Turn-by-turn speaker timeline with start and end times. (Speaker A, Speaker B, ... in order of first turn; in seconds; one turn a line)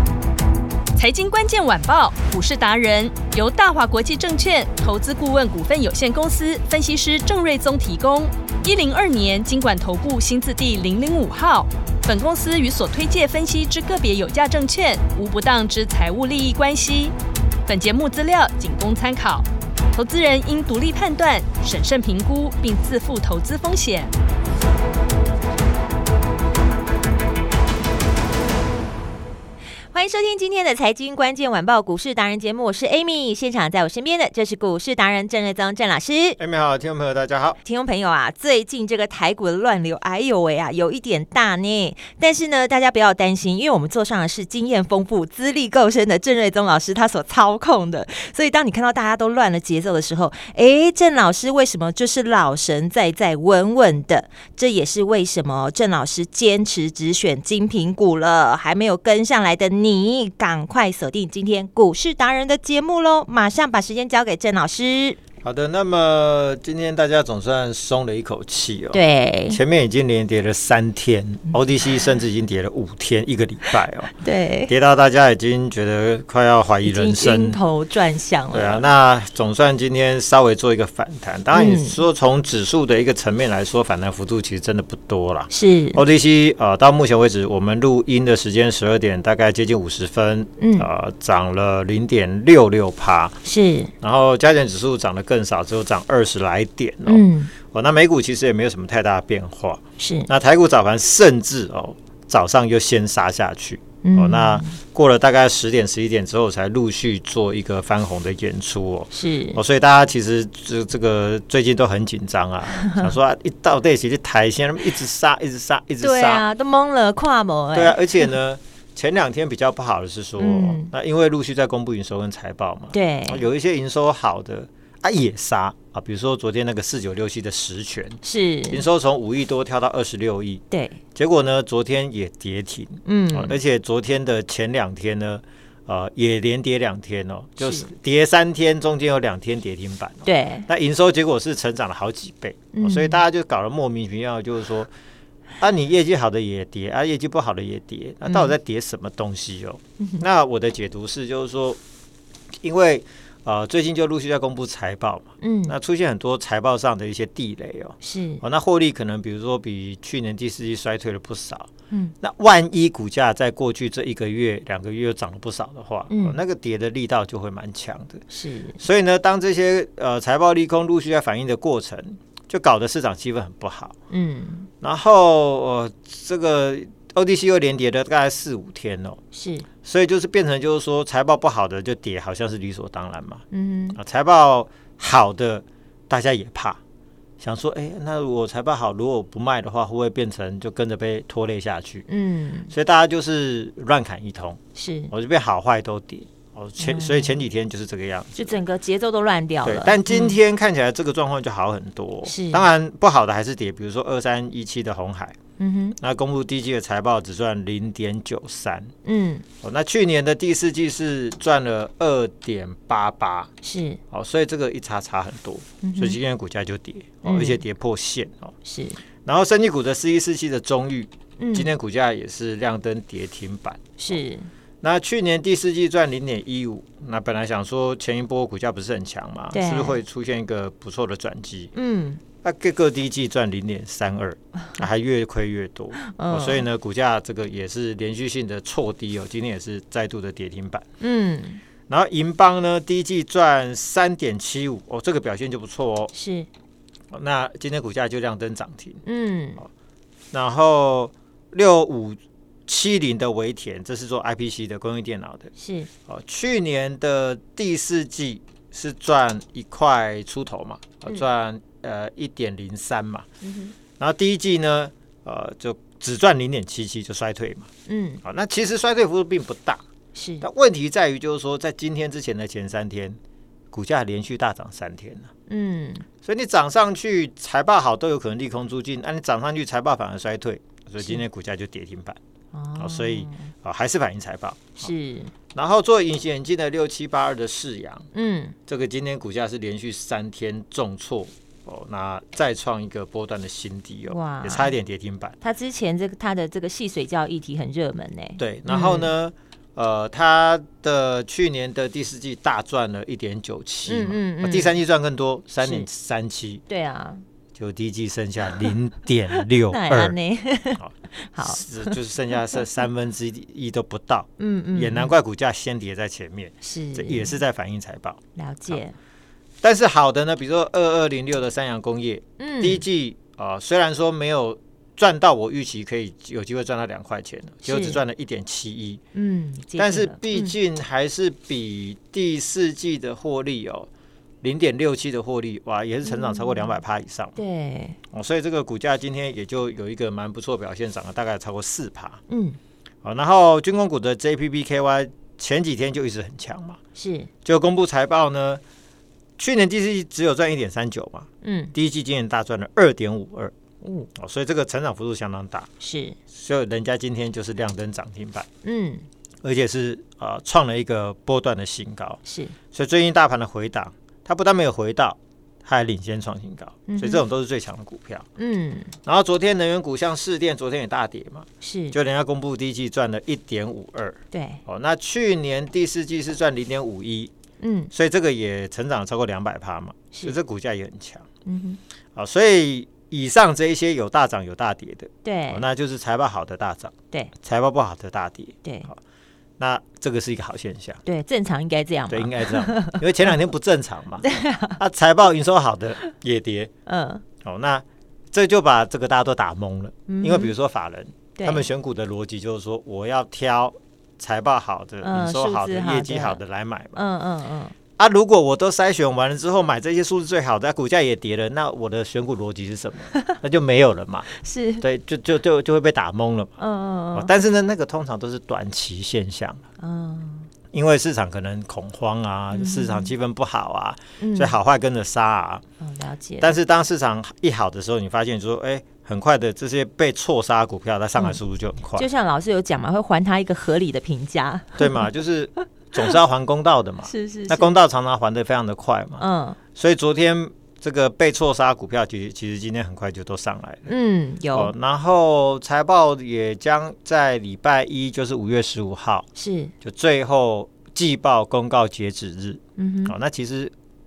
Speaker A: 0.9-17.1
Speaker A: 17.6-24.1
Speaker B: 29.9-36.4
Speaker C: 36.4-37.6
Speaker B: 37.6-65.2
Speaker C: 65.4-74.1
Speaker B: 68.9-69.6
Speaker B: 74.2-74.7
Speaker C: 74.7-77.6
Speaker B: 76.8-78.9
Speaker C: 78.5-93.4
Speaker B: 81.5-82.0
Speaker B: 85.5-86.0
Speaker B: 90.6-90.9
Speaker B: 93.4-93.9
Speaker C: 94.0-116.5
Speaker B: 97.0-97.5
Speaker B: 100.0-100.3
Speaker B: 104.0-104.8
Speaker B: 109.1-109.6
Speaker B: 116.0-118.3
Speaker C: 117.7-130.6
Speaker B: 120.4-120.9
Speaker B: 122.9-123.5
Speaker B: 128.2-128.8
Speaker B: 130.7-131.0
Speaker C: 131.1-144.9
Speaker B: 133.1-133.6
Speaker B: 137.6-137.9
Speaker B: 140.2-140.7
Speaker B: 142.7-143.2
Speaker C: 145.6-151.8
Speaker B: 148.2-148.5
Speaker C: 152.6-161.7
Speaker B: 155.4-155.7
Speaker B: 158.0-158.4
Speaker C: 162.2-168.2
Speaker B: 166.1-166.4
Speaker B: 168.3-168.8
Speaker C: 168.8-173.9
Speaker B: 174.1-174.7
Speaker C: 174.8-179.2
Speaker B: 179.3-179.7
Speaker C: 179.8-186.8
Speaker B: 183.5-184.0
Speaker C: 187.4-192.1
Speaker B: 192.1-192.7
Speaker C: 192.7-194.6
Speaker B: 194.7-195.1
Speaker C: 195.1-198.6
Speaker B: 196.8-197.3
Speaker B: 198.3-200.3
Speaker C: 199.6-205.3
Speaker B: 202.2-202.7
Speaker B: 205.6-206.0
Speaker C: 206.0-208.9
Speaker B: 209.0-209.4
Speaker C: 209.6-213.5
Speaker B: 213.6-214.0
Speaker C: 214.1-218.5
Speaker B: 215.8-216.2
Speaker B: 217.2-217.6
Speaker B: 218.6-219.0
Speaker C: 219.2-224.2
Speaker B: 221.4-221.7
Speaker B: 224.0-224.5
Speaker C: 224.8-231.7
Speaker B: 229.5-230.0
Speaker B: 231.7-232.2
Speaker C: 232.4-240.8
Speaker B: 236.1-236.6
Speaker B: 241.0-241.6
Speaker C: 241.9-246.1
Speaker B: 246.1-246.5
Speaker C: 247.1-249.0
Speaker B: 249.0-249.6
Speaker C: 250.3-255.5
Speaker B: 255.6-255.9
Speaker C: 256.1-263.2
Speaker B: 263.4-263.7
Speaker C: 264.0-267.7
Speaker B: 267.9-268.2
Speaker C: 268.2-269.8
Speaker B: 270.1-270.4
Speaker C: 270.4-273.2
Speaker C: 273.7-275.3
Speaker B: 275.5-276.0
Speaker C: 276.2-282.2
Speaker B: 282.5-283.5
Speaker C: 282.8-284.9
Speaker B: 284.8-285.3
Speaker C: 285.5-288.1
Speaker B: 288.1-288.6
Speaker C: 288.7-295.4
Speaker B: 294.1-294.7
Speaker B: 295.4-299.1
Speaker C: 298.4-306.6
Speaker B: 303.9-304.8
Speaker B: 305.6-305.9
Speaker B: 306.7-307.2
Speaker C: 307.5-310.2
Speaker B: 309.7-312.0
Speaker C: 310.8-318.8
Speaker B: 314.4-315.1
Speaker B: 316.6-317.4
Speaker B: 318.4-318.9
Speaker C: 319.6-329.0
Speaker B: 322.4-322.8
Speaker B: 327.6-328.0
Speaker B: 329.1-330.5
Speaker C: 329.8-333.9
Speaker C: 334.4-337.4
Speaker B: 336.0-336.8
Speaker B: 337.4-338.0
Speaker C: 338.1-342.2
Speaker B: 342.3-342.6
Speaker C: 343.0-346.8
Speaker B: 346.9-347.3
Speaker C: 347.4-348.6
Speaker C: 349.4-353.5
Speaker B: 351.4-351.7
Speaker B: 353.8-354.1
Speaker C: 354.1-355.7
Speaker B: 355.8-356.2
Speaker C: 356.3-358.5
Speaker B: 358.6-359.1
Speaker C: 359.4-362.2
Speaker B: 362.2-362.5
Speaker C: 362.7-368.2
Speaker B: 366.9-367.2
Speaker B: 368.4-368.9
Speaker C: 369.0-377.3
Speaker B: 371.6-371.9
Speaker B: 374.3-374.6
Speaker B: 377.6-377.9
Speaker C: 377.9-381.2
Speaker B: 381.4-381.8
Speaker C: 382.1-389.0
Speaker B: 385.2-385.7
Speaker B: 388.6-388.9
Speaker C: 389.6-391.0
Speaker B: 391.0-393.1
Speaker C: 392.1-394.2
Speaker B: 394.2-394.8
Speaker C: 394.8-396.7
Speaker B: 396.9-397.2
Speaker C: 397.4-407.0
Speaker B: 400.1-400.5
Speaker B: 401.4-401.7
Speaker B: 405.0-406.4
Speaker B: 406.9-407.7
Speaker C: 408.0-414.3
Speaker B: 414.4-414.8
Speaker C: 414.8-416.5
Speaker B: 416.6-417.3
Speaker C: 417.1-419.6
Speaker B: 419.8-420.5
Speaker C: 420.7-425.6
Speaker B: 422.5-423.1
Speaker B: 424.2-424.6
Speaker B: 425.8-426.5
Speaker C: 426.4-432.1
Speaker B: 431.9-435.1
Speaker C: 434.8-439.2
Speaker B: 437.0-437.7
Speaker B: 439.2-439.6
Speaker C: 439.7-443.9
Speaker B: 443.9-444.7
Speaker C: 444.5-449.3
Speaker B: 449.4-449.7
Speaker C: 449.8-453.7
Speaker B: 452.8-453.1